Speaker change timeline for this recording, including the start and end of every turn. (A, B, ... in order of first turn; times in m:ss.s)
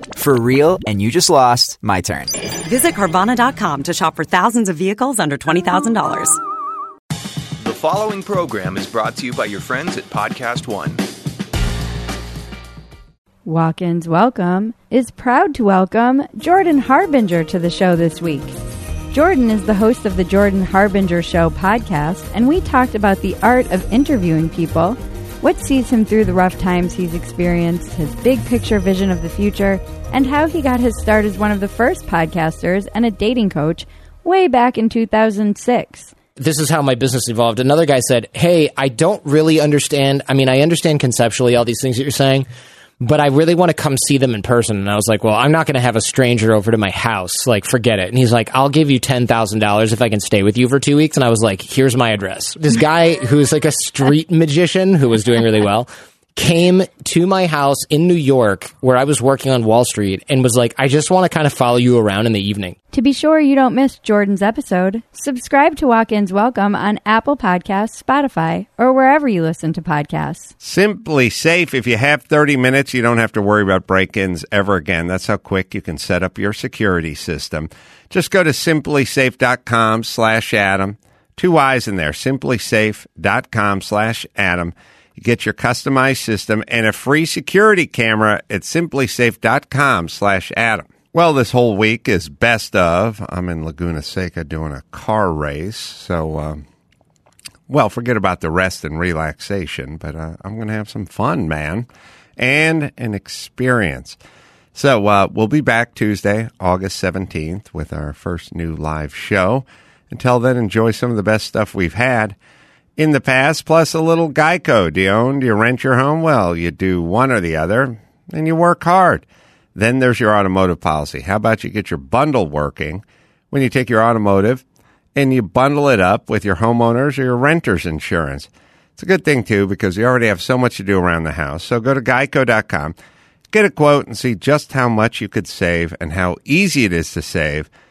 0:00.2-0:02.3 A
0:02.6-0:06.4 B
0:07.6-0:11.0 C
0:13.4-0:18.5 D
0:19.1-0:36.1 D
0:36.4-0:42.5 E
0:43.0-1:02.8 E
1:02.9-1:10.5 D
1:10.6-1:36.6 F
1:37.7-1:41.9 F
1:42.4-1:44.2 F
1:44.7-1:52.4 F
1:53.0-2:04.6 F
2:05.2-2:13.0 F
2:13.5-2:17.7 F